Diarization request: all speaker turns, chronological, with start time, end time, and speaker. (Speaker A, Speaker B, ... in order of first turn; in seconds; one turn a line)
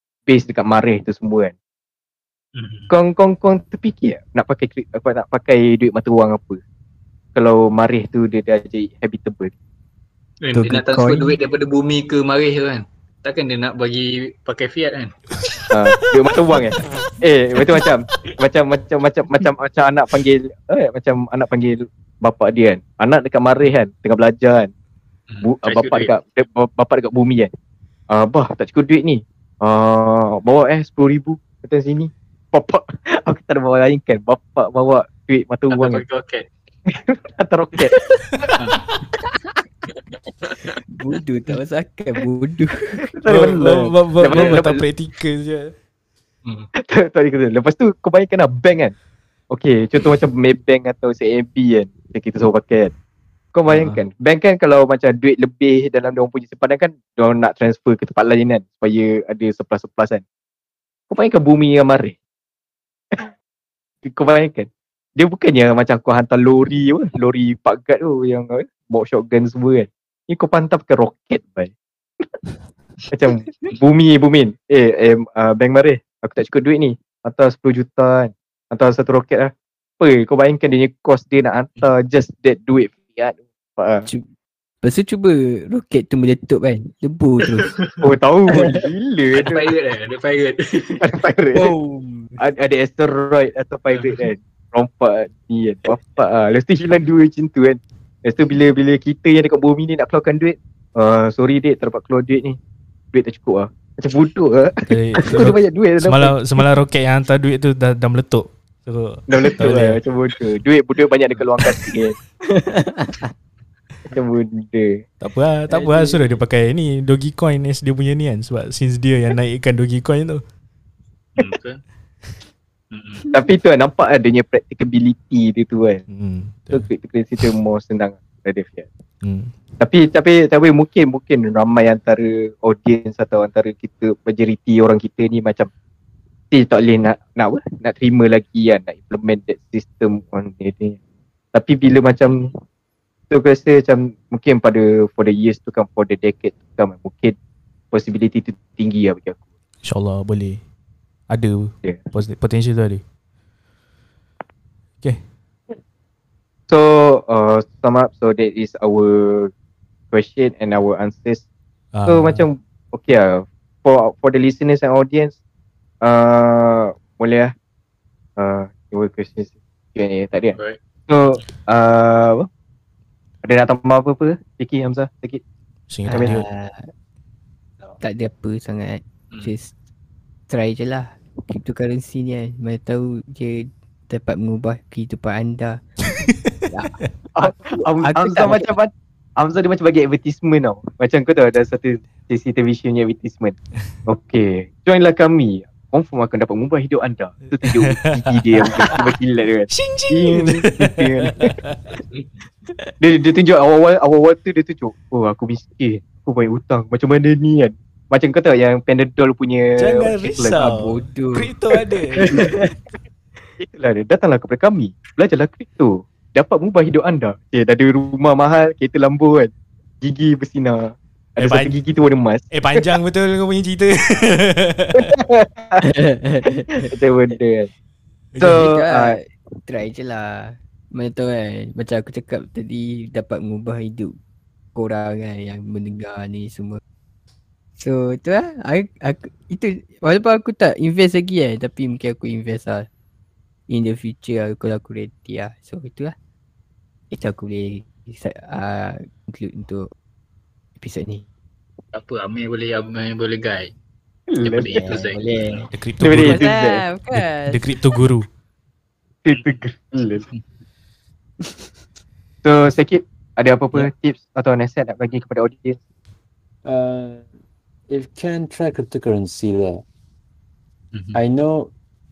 Speaker A: 0.3-1.5
Speaker B: 2.6-2.9
Speaker A: 2.9-6.6
Speaker A: 7.3-9.5
Speaker B: 10.4-15.6
Speaker C: 10.5-11.3
Speaker A: 15.7-24.7
Speaker B: 25.3-26.1
Speaker A: 25.4-27.5
Speaker A: 28.1-36.0
Speaker B: 35.7-36.5
Speaker A: 36.9-38.1
Speaker D: 38.3-39.0
Speaker B: 38.6-38.8
Speaker B: 39.9-40.8
Speaker C: 41.0-43.1
Speaker A: 43.1-44.9
Speaker D: 43.3-45.7
Speaker A: 46.9-49.0
Speaker A: 49.5-52.9
Speaker A: 53.5-60.2
Speaker C: 53.7-54.0
Speaker A: 61.1-62.2
Speaker A: 64.0-71.7
Speaker A: 73.1-84.1
Speaker C: 84.8-87.7
Speaker B: 87.5-88.0
Speaker A: 88.0-89.7
Speaker B: 89.4-91.0
Speaker A: 91.0-91.7
Speaker A: 92.4-102.6
Speaker B: 93.9-94.2
Speaker A: 103.1-106.7
Speaker D: 104.9-110.0
Speaker A: 109.3-112.2
Speaker C: 112.8-113.1
Speaker A: 114.1-115.0
Speaker D: 115.2-120.4
Speaker A: 115.7-116.2
Speaker B: 121.4-121.8
Speaker B: 122.9-123.3
Speaker A: 123.3-126.0
Speaker D: 126.1-127.5
Speaker A: 126.7-128.9
Speaker D: 129.2-129.6
Speaker A: 129.8-135.7
Speaker A: 136.5-141.0
Speaker A: 141.5-142.5
Speaker A: 143.3-147.4
Speaker A: 147.9-149.4
Speaker D: 149.8-150.7
Speaker D: 151.3-153.0
Speaker A: 156.7-159.5
Speaker A: 160.1-161.4
Speaker D: 161.9-162.5
Speaker A: 162.1-165.4
Speaker A: 166.0-167.5
Speaker A: 168.4-170.6
Speaker A: 171.1-172.5
Speaker A: 173.4-175.4
Speaker D: 175.9-176.5
Speaker C: 176.1-176.9
Speaker C: 178.0-179.7
Speaker C: 180.5-185.8
Speaker D: 186.5-187.1
Speaker C: 186.7-188.7
Speaker A: 187.4-201.5
Speaker D: 197.6-198.6
Speaker D: 199.7-202.0
Speaker A: 203.0-210.9
Speaker D: 209.8-212.7
Speaker C: 210.8-211.5
Speaker C: 212.2-212.7
Speaker A: 213.6-222.5
Speaker D: 221.4-221.7
Speaker D: 222.5-225.2
Speaker A: 225.1-225.8
Speaker C: 225.8-226.9
Speaker A: 226.9-227.7
Speaker D: 228.3-228.7
Speaker A: 228.4-229.2
Speaker C: 228.6-234.2
Speaker C: 234.8-236.8
Speaker C: 237.8-242.9
Speaker C: 243.7-246.2
Speaker C: 247.1-249.9
Speaker C: 250.8-251.2
Speaker B: 251.9-253.7
Speaker A: 254.3-254.7
Speaker B: 254.4-255.2
Speaker C: 254.6-258.0
Speaker D: 255.7-256.4
Speaker A: 256.0-256.9
Speaker D: 257.1-258.3
Speaker A: 259.2-260.3
Speaker B: 259.3-260.4
Speaker A: 262.4-265.8
Speaker E: 266.6-267.3
Speaker E: 267.9-269.8
Speaker B: 270.9-271.2
Speaker E: 271.1-271.7